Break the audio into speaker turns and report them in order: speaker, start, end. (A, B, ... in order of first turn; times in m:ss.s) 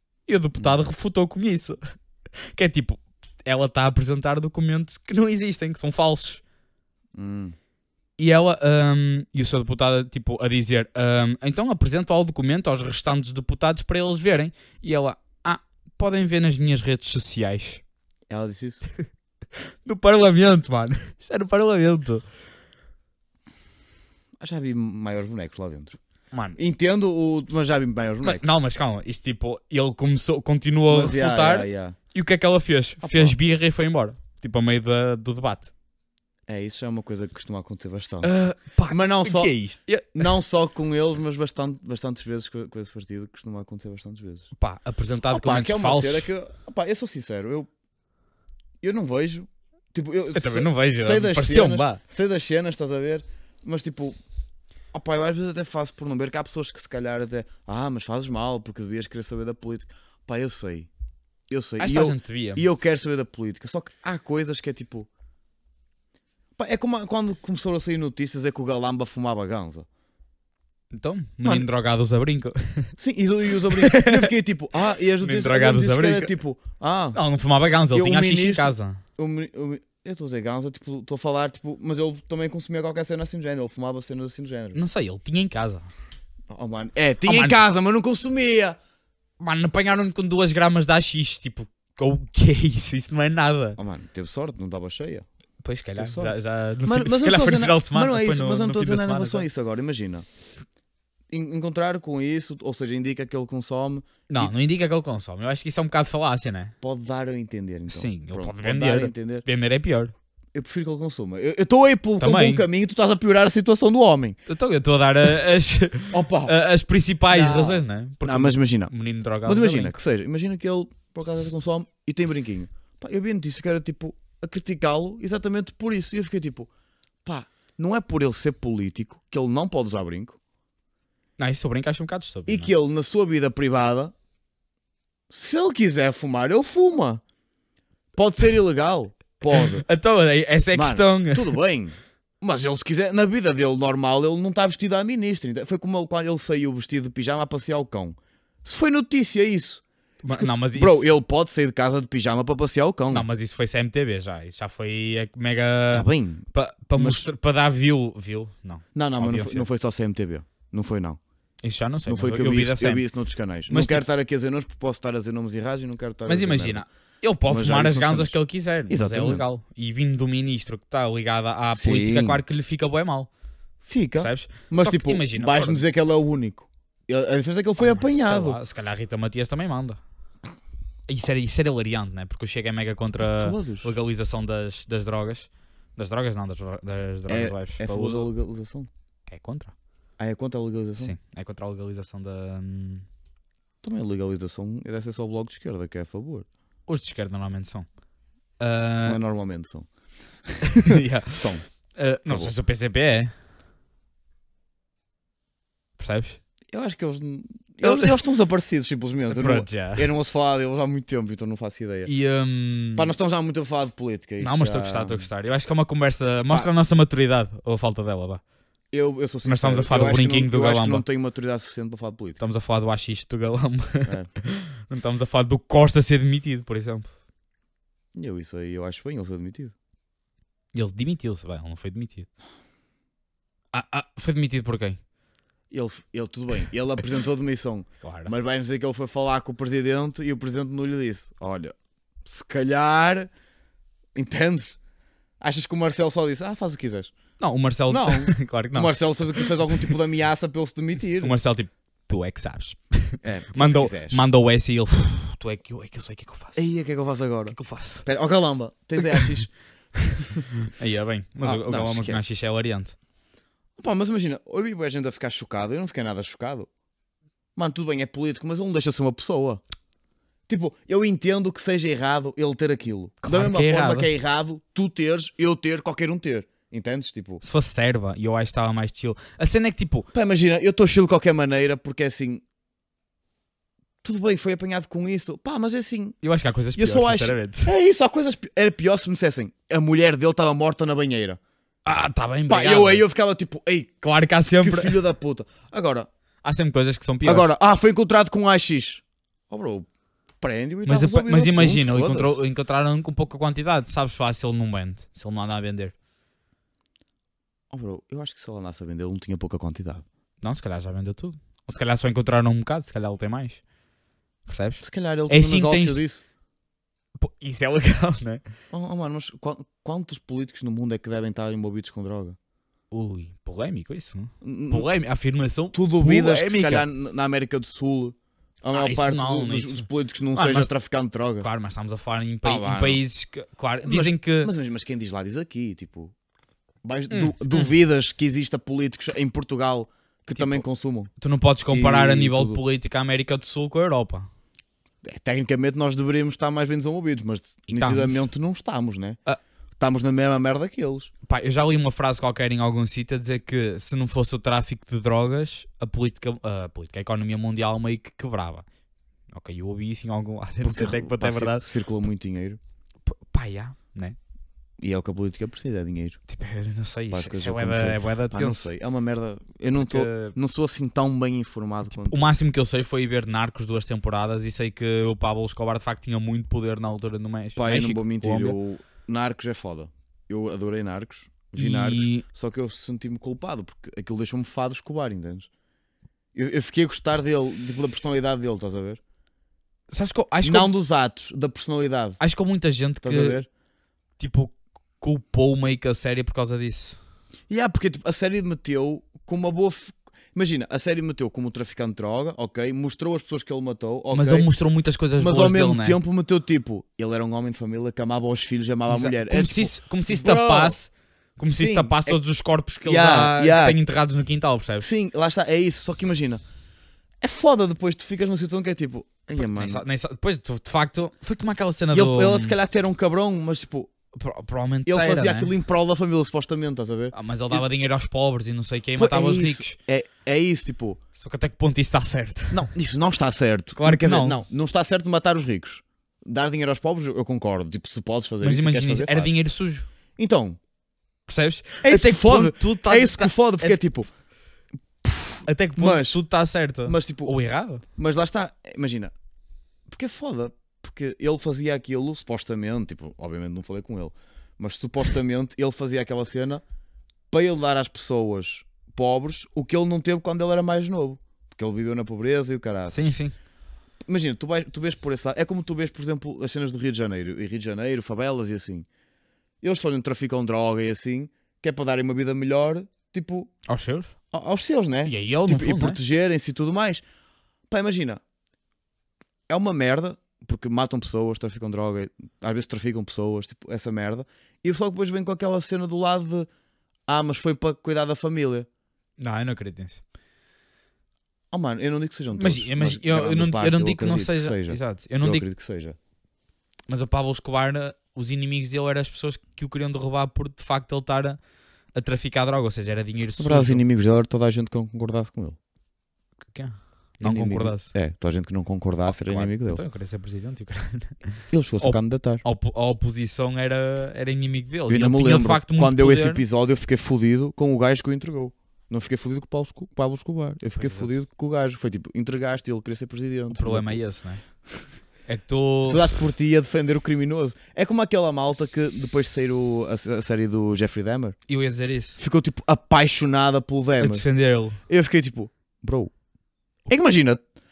0:00.3-0:01.8 A
0:00.6-0:00.8 B
0:02.4-0:06.4 A
0:07.1-0:07.6 B
0:08.2-0:17.8 A
0:18.3-0:18.9 B
0:19.8-0:22.2 A
0:24.4-0:26.0 B
0:26.3-0:26.6 A
0:26.5-0:28.4 B
0:28.2-0:35.7 A
0:30.9-0:32.0 B
0:33.0-0:33.4 B
0:36.5-0:39.5 B
0:38.2-0:40.2 A
0:40.1-0:44.5 B
0:44.5-0:46.3 A
0:45.3-0:47.7 B
0:48.8-0:54.2 B
0:50.3-0:52.0 A
0:54.9-1:00.9 B
1:01.5-1:05.1 B
1:01.8-1:02.6 A
1:06.6-1:09.8 B
1:10.9-1:13.0 A
1:11.4-1:11.7 B
1:13.0-1:17.2 B
1:13.8-1:14.3 A
1:15.2-1:16.3 A
1:17.1-1:19.0 A
1:17.9-1:24.8 B
1:24.7-1:25.9 A
1:26.5-1:28.8 B
1:27.2-1:27.6 A
1:29.4-1:33.8 A
1:33.8-1:35.2 B
1:35.6-1:39.4 A
1:35.9-1:40.2 B
1:41.3-1:44.5 B
1:44.3-1:46.7 A
1:46.8-1:49.4 B
1:47.9-1:50.1 A
1:50.5-1:54.4 B
1:52.2-1:52.6 A
1:54.5-2:00.0 A
1:56.1-1:56.6 B
1:57.3-1:58.9 B
1:59.4-2:06.7 B
2:07.2-2:10.4 B
2:11.4-2:12.7 A
2:12.4-2:14.1 B
2:15.3-2:17.2 B
2:18.2-2:19.8 B
2:19.5-2:21.5 A
2:20.7-2:33.3 B
2:30.2-2:31.1 A
2:33.1-2:39.7 A
2:35.9-2:37.3 B
2:38.9-2:41.2 B
2:41.6-2:43.1 A
2:42.0-2:46.8 B
2:43.7-2:44.0 A
2:46.2-2:53.3 A
2:47.4-2:49.4 B
2:51.7-2:52.4 B
2:53.8-2:58.6 B
2:54.2-2:55.8 A
2:57.8-3:00.0 A
3:01.1-3:08.3 A
3:03.2-3:03.9 B
3:07.3-3:08.9 B
3:09.3-3:09.7 A
3:10.2-3:11.1 B
3:11.0-3:13.0 A
3:13.8-3:16.5 B
3:16.9-3:18.0 A
3:18.6-3:19.2 A
3:19.0-3:19.9 B
3:20.4-3:20.7 B
3:20.8-3:23.3 A
3:21.3-3:22.5 B
3:26.0-3:26.4 A
3:26.7-3:32.1 B
3:27.8-3:28.2 A
3:29.3-3:30.1 A
3:32.0-3:33.1 A
3:32.9-3:35.2 B
3:34.4-3:38.4 A
3:38.9-3:42.4 B
3:39.4-3:41.0 A
3:42.4-3:47.1 A
3:44.0-3:44.3 B
3:48.1-3:49.7 B
3:50.7-3:52.3 A
3:53.7-3:55.0 A
3:55.7-4:03.3 B
3:58.0-3:58.3 A
4:04.1-4:04.8 B
4:05.4-4:07.1 B
4:07.4-4:09.9 A
4:07.9-4:11.3 B
4:11.2-4:16.6 A
4:13.2-4:14.2 B
4:16.5-4:19.6 B
4:17.5-4:18.0 A
4:20.8-4:23.0 A
4:21.4-4:22.3 B
4:23.8-4:26.7 B
4:27.6-4:29.6 B
4:30.5-4:37.4 B
4:33.2-4:34.1 A
4:37.4-4:40.1 A
4:40.1-4:42.4 B
4:44.0-4:46.2 B
4:46.2-4:47.7 A
4:46.7-4:51.4 B
4:51.8-4:53.0 A
4:52.5-4:54.0 B
4:54.0-4:55.0 A
4:54.6-4:56.1 B
4:56.4-4:57.5 A
4:57.2-4:59.9 B
5:00.4-5:02.4 B
5:00.8-5:05.9 A
5:07.7-5:10.0 B
5:10.4-5:13.6 A
5:14.4-5:16.0 A
5:14.8-5:16.2 B
5:17.2-5:18.4 A
5:18.7-5:22.4 B
5:22.9-5:26.8 A
5:24.4-5:24.9 B
5:25.7-5:31.5 B
5:28.7-5:30.7 A
5:31.4-5:34.5 A
5:32.4-5:33.0 B
5:33.8-5:36.1 B
5:36.8-5:41.1 B
5:37.1-5:37.7 A
5:40.4-5:40.6 A
5:41.2-5:44.3 A
5:41.7-5:42.6 B
5:45.0-5:49.2 B
5:47.7-5:48.3 A
5:49.8-5:51.1 B
5:51.2-5:58.6 A
5:59.3-6:01.6 A
6:00.6-6:02.6 B
6:03.1-6:04.2 A
6:04.8-6:06.2 B
6:06.3-6:08.7 A
6:07.1-6:12.3 B
6:09.7-6:10.3 A
6:11.8-6:18.6 A
6:17.6-6:25.5 B
6:21.6-6:22.2 A
6:26.3-6:29.0 B
6:29.9-6:30.7 A
6:30.4-6:32.2 B
6:32.2-6:33.4 A
6:33.0-6:33.5 B
6:34.2-6:37.0 A
6:37.5-6:44.5 B
6:44.1-6:46.0 A
6:45.2-6:50.8 B
6:48.9-6:54.9 A
6:51.5-6:52.2 B
6:52.8-6:53.8 B
6:54.8-6:56.4 B
6:57.2-6:59.8 B
6:59.4-7:02.5 A
7:01.9-7:03.9 B
7:04.1-7:05.5 A
7:04.8-7:07.6 B
7:07.1-7:09.8 A
7:09.0-7:11.0 B
7:11.2-7:12.7 A
7:12.5-7:19.4 B
7:13.8-7:14.4 A
7:18.4-7:19.9 A
7:20.2-7:20.6 B
7:21.3-7:23.8 A
7:21.8-7:24.1 B
7:25.0-7:26.2 B
7:25.5-7:27.8 A
7:26.8-7:27.3 B
7:27.8-7:29.1 B
7:29.9-7:36.6 B
7:37.3-7:43.1 B
7:42.9-7:43.3 A
7:44.1-7:48.9 B
7:49.6-7:53.5 B
7:53.6-7:54.1 A
7:54.3-7:57.0 B
7:55.0-7:56.0 A
7:57.7-7:58.2 B
7:59.5-8:06.5 B
8:07.1-8:08.7 B
8:09.2-8:10.0 A
8:11.5-8:16.0 B
8:12.4-8:15.4 A
8:16.9-8:21.4 A
8:21.9-8:23.8 A
8:23.4-8:25.6 B
8:26.5-8:27.9 A
8:27.2-8:29.8 B
8:29.0-8:36.4 A
8:31.5-8:32.4 B
8:34.9-8:44.0 B
8:40.8-8:41.1 A
8:43.5-8:44.4 A
8:45.2-8:46.0 A
8:45.9-8:51.4 B
8:51.5-8:52.2 A
8:52.2-8:54.2 B
8:54.0-8:54.8 A
8:54.8-8:56.1 B
8:56.9-8:57.4 B